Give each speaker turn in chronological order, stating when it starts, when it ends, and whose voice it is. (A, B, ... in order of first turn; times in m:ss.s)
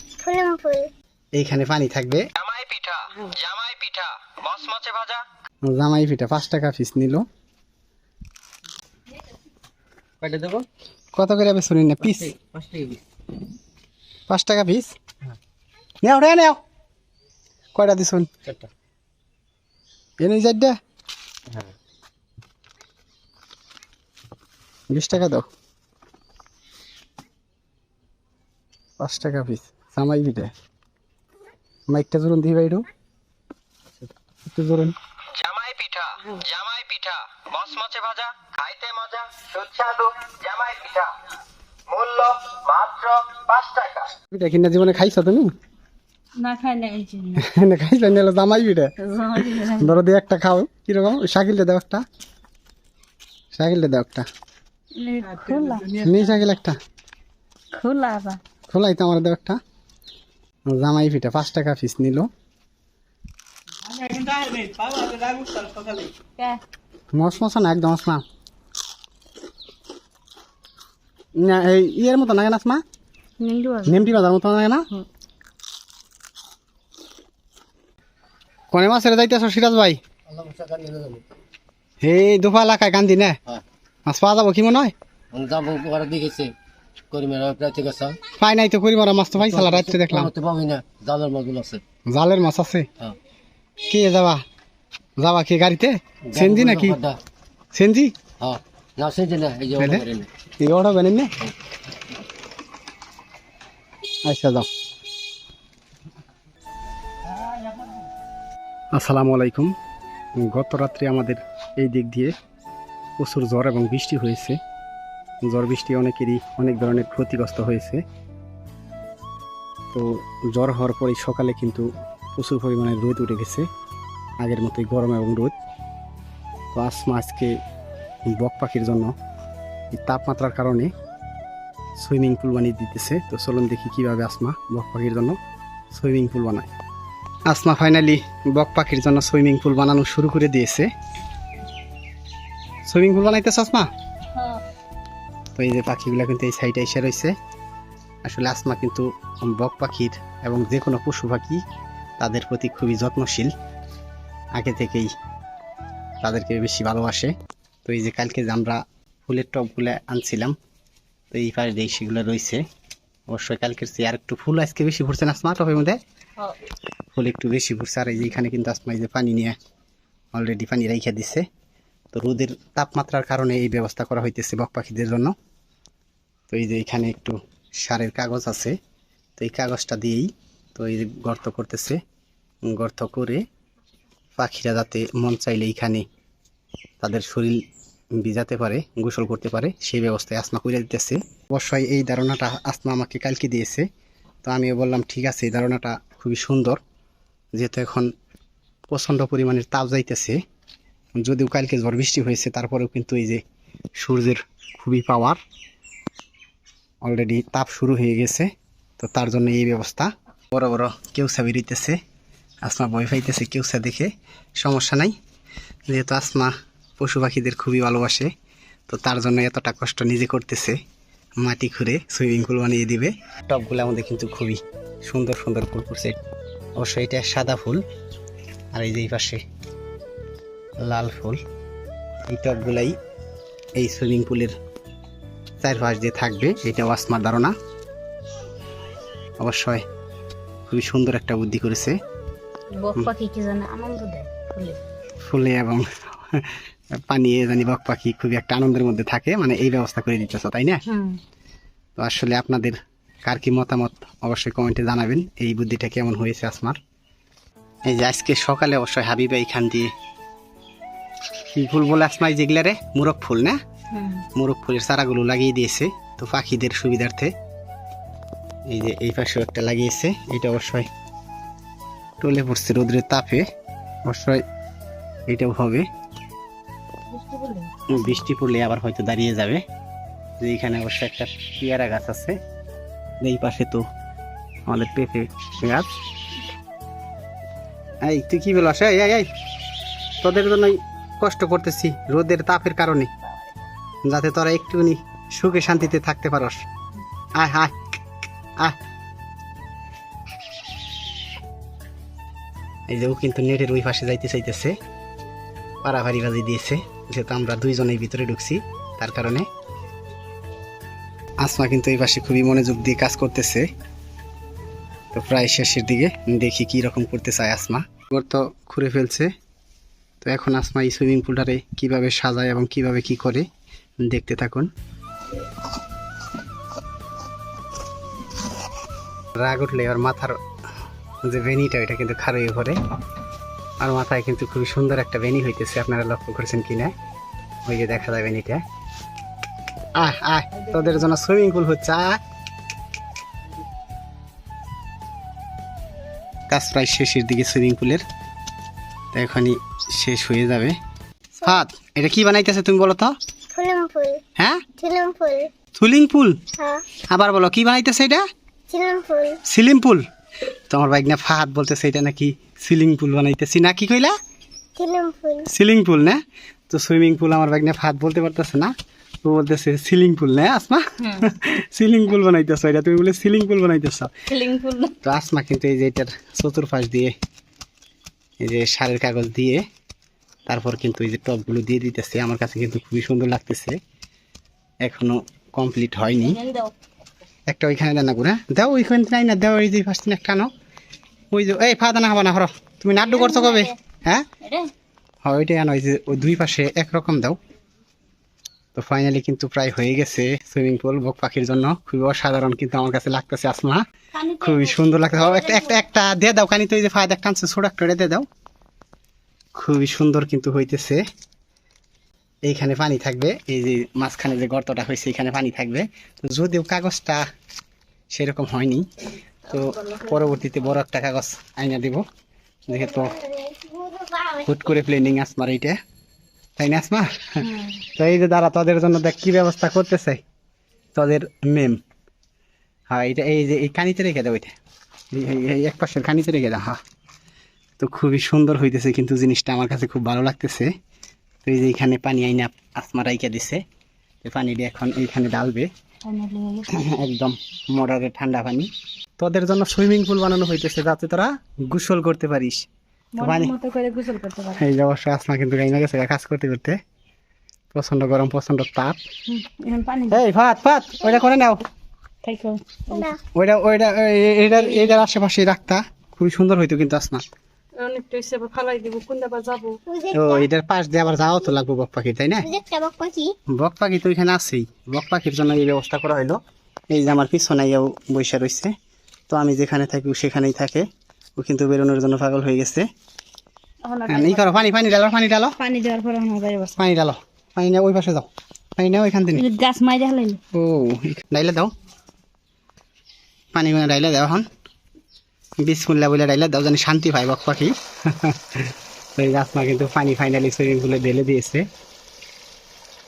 0:00.2-0:00.9 A
0:01.4-0:02.2 B
0:02.4-0:05.2 C
0:05.6-0:07.3 B
0:10.2-0:10.7 D
0:11.2-0:12.4 B
0:12.4-0:13.0 D
0:14.3-0:15.0 B
0:16.0-0:16.6 B
0:17.8-0:18.3 B
0:20.2-0:20.8 B
0:24.9-0:25.5 B
0:29.0-0:30.5 B
0:31.9-0:32.9 B
0:34.5-0:35.0 B
0:35.4-0:41.2 C
0:41.9-0:44.1 C
0:44.3-0:45.5 B
0:46.4-0:47.4 E
0:47.4-0:52.0 B
0:49.0-0:50.0 E
0:53.5-0:54.3 B
0:55.0-0:56.0 E
0:56.0-0:56.8 B
0:57.8-0:58.4 E
0:58.7-0:59.6 B
1:00.7-1:02.3 B
1:04.0-1:05.6 E
1:04.2-1:05.8 C
1:07.1-1:08.2 B
1:11.4-1:12.8 B
1:13.4-1:14.1 E
1:13.9-1:14.9 B
1:18.7-1:20.0 B
1:20.3-1:21.2 D
1:22.0-1:23.4 B
1:24.1-1:24.9 B
1:25.3-1:26.5 D
1:27.1-1:28.2 D
1:28.4-1:30.3 B
1:30.1-1:31.8 D
1:32.1-1:32.9 B
1:33.9-1:34.4 B
1:35.2-1:37.0 B
1:36.3-1:37.2 D
1:37.7-1:38.2 B
1:38.4-1:40.3 D
1:39.8-1:40.0 B
1:40.6-1:41.3 B
1:44.3-1:44.7 B
1:48.9-1:49.7 B
1:50.4-1:52.3 B
1:53.2-1:54.6 B
1:55.4-1:58.0 B
1:59.9-2:03.7 B
2:04.4-2:05.6 B
2:06.7-2:07.6 B
2:08.3-2:09.1 B
2:09.9-2:10.9 B
2:12.0-2:15.4 B
2:15.9-2:16.7 B
2:17.5-2:20.9 B
2:22.9-2:23.9 B
2:25.6-2:27.3 B
2:28.2-2:31.6 B
2:32.2-2:33.5 B
2:34.6-2:35.1 B
2:36.2-2:37.3 B
2:37.8-2:40.6 B
2:41.3-2:42.6 B
2:43.3-2:46.0 B
2:47.1-2:49.6 B
2:50.3-2:51.5 B
2:52.1-2:55.3 B
2:56.5-2:58.8 B
2:59.4-3:02.0 B
3:02.7-3:03.4 B
3:04.4-3:06.0 B
3:07.0-3:07.6 B
3:08.2-3:13.9 B
3:14.4-3:16.8 B
3:17.6-3:18.1 B
3:18.9-3:20.4 B
3:21.2-3:23.4 B
3:24.0-3:25.4 B
3:27.0-3:32.0 B
3:32.6-3:35.2 B
3:35.9-3:38.3 B
3:38.9-3:40.8 B
3:41.4-3:46.2 B
3:46.8-3:47.8 B
3:48.7-3:49.4 B
3:50.8-3:51.4 B
3:52.3-3:53.0 B
3:53.8-3:54.6 B
3:55.6-3:57.5 B
3:59.4-3:59.8 B
4:00.7-4:02.0 B
4:02.8-4:04.8 E
4:05.2-4:06.5 B
4:07.1-4:10.8 B
4:10.9-4:11.2 E
4:12.0-4:16.8 B
4:17.9-4:19.9 B
4:21.5-4:23.6 B
4:23.9-4:24.2 E
4:24.4-4:27.3 B
4:28.7-4:30.9 B
4:32.2-4:33.5 B
4:34.1-4:34.4 B
4:35.3-4:35.9 B
4:37.1-4:38.0 E
4:37.9-4:39.6 B
4:40.4-4:42.4 B
4:43.2-4:43.8 B
4:44.7-4:45.9 B
4:48.1-4:49.3 B
4:50.2-4:53.1 B
4:54.0-4:56.6 B
4:57.4-4:57.8 B
5:02.9-5:04.8 B
5:05.8-5:09.5 B
5:11.4-5:13.7 B
5:15.1-5:19.3 B
5:20.2-5:23.5 B
5:24.0-5:24.7 B
5:29.4-5:30.4 B
5:31.2-5:32.8 B
5:33.8-5:36.9 B
5:37.7-5:38.6 B
5:40.0-5:42.2 B
5:46.5-5:48.0 B
5:49.1-5:50.8 B
5:51.4-5:53.1 B
5:53.5-5:54.2 A
5:54.4-5:54.6 B
5:54.8-5:55.5 A
5:55.8-5:56.4 B
5:56.6-5:56.8 A
5:57.1-5:58.2 B
5:58.7-5:59.4 A
5:59.4-6:00.0 B
6:00.7-6:04.1 B
6:04.8-6:05.5 A
6:05.5-6:08.7 B
6:09.2-6:14.1 B
6:14.3-6:15.0 E
6:15.0-6:17.1 B
6:18.4-6:19.6 B
6:20.5-6:23.8 B
6:24.8-6:26.4 B
6:26.1-6:26.7 E
6:27.5-6:30.5 B
6:31.3-6:34.3 B
6:33.0-6:33.8 E
6:34.4-6:34.7 E
6:35.2-6:37.4 B
6:38.8-6:43.8 B
6:44.2-6:45.8 E
6:44.4-6:48.3 B
6:49.6-6:51.0 B
6:52.5-6:57.3 B
6:58.1-6:58.9 B
6:59.5-7:02.0 B
6:59.6-7:00.1 E
7:02.7-7:03.2 B
7:02.7-7:04.5 A
7:04.4-7:05.8 B
7:06.6-7:10.2 B
7:11.0-7:11.8 B
7:12.9-7:14.5 B
7:15.1-7:16.8 B
7:17.8-7:20.7 B
7:21.4-7:23.6 B
7:24.2-7:25.7 B
7:26.1-7:26.7 E
7:26.7-7:32.7 B
7:33.2-7:34.6 E
7:33.2-7:33.6 B
7:34.6-7:36.8 B
7:37.7-7:39.0 B
7:39.3-7:40.2 E
7:40.1-7:41.6 B
7:42.2-7:43.1 E
7:42.9-7:43.2 A
7:43.4-7:47.2 B
7:44.6-7:45.0 E
7:47.8-7:49.8 E
7:49.9-7:50.5 A
7:50.1-7:52.5 B
7:52.4-7:53.3 A
7:53.5-7:56.4 B
7:56.9-7:58.7 B
7:59.3-8:00.9 B
8:01.4-8:02.9 B
8:03.8-8:04.6 E
8:04.1-8:05.6 B
8:05.6-8:06.8 E
8:06.8-8:09.5 B
8:09.4-8:10.4 E
8:10.5-8:11.7 B
8:13.5-8:14.5 B
8:15.6-8:21.7 B